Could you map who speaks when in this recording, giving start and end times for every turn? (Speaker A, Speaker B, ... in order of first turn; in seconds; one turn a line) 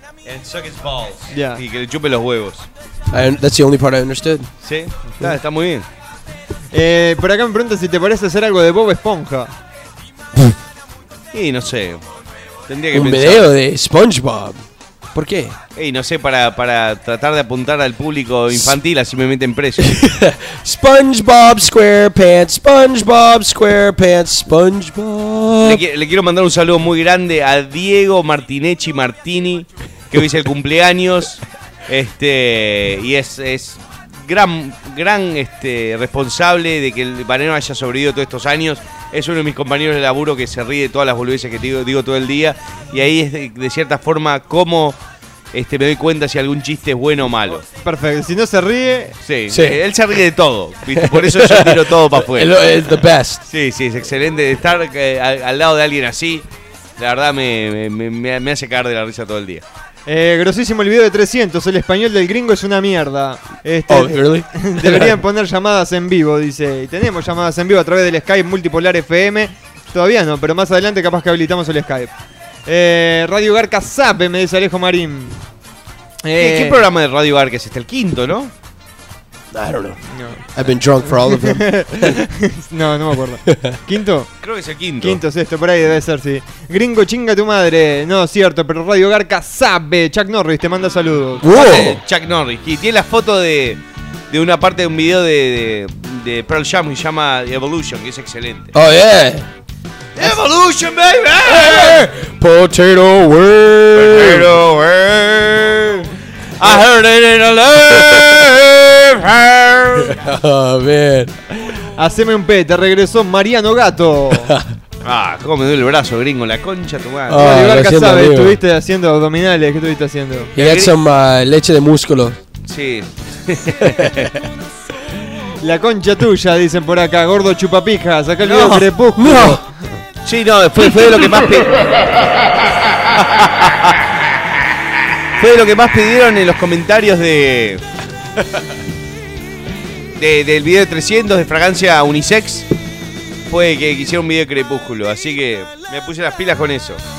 Speaker A: 0.2-2.7
Speaker B: 1.3-1.6
Speaker C: 3.1-4.5
Speaker A: 4.6-5.9
Speaker B: 6.7-9.5
Speaker A: 11.3-12.0
Speaker A: 12.7-13.5
Speaker C: 12.9-14.6
Speaker C: 15.1-15.6
Speaker A: 15.8-20.0
Speaker C: 19.8-25.8
Speaker A: 25.6-45.0
Speaker A: 45.5-47.6
Speaker B: 47.8-49.2
Speaker A: 49.2-52.6
Speaker C: 49.5-49.8
Speaker C: 51.0-53.4
Speaker A: 53.5-56.5
Speaker A: 57.0-59.6
Speaker B: 60.1-72.1
Speaker C: 63.9-65.2
Speaker B: 72.7-75.4
Speaker B: 76.2-76.8
Speaker A: 76.4-78.5
Speaker C: 79.5-80.0
Speaker B: 80.1-80.5
Speaker C: 80.5-82.2
Speaker B: 81.0-84.3
Speaker A: 84.4-85.2
Speaker B: 85.0-91.5
Speaker C: 91.4-92.0
Speaker A: 91.5-98.7
Speaker C: 98.7-99.5
Speaker A: 100.2-102.1
Speaker C: 101.4-104.5
Speaker A: 104.0-110.2
Speaker C: 110.0-111.3
Speaker B: 112.0-114.6
Speaker C: 114.5-114.7
Speaker A: 115.0-117.7
Speaker C: 117.3-118.6
Speaker B: 117.4-120.5
Speaker C: 120.5-122.4
Speaker A: 120.6-120.9
Speaker A: 122.7-124.3
Speaker C: 123.9-124.3
Speaker B: 125.6-129.7
Speaker A: 128.4-128.9
Speaker C: 129.2-129.6
Speaker A: 130.2-134.0
Speaker A: 135.4-137.8
Speaker A: 140.2-142.7
Speaker A: 143.5-147.0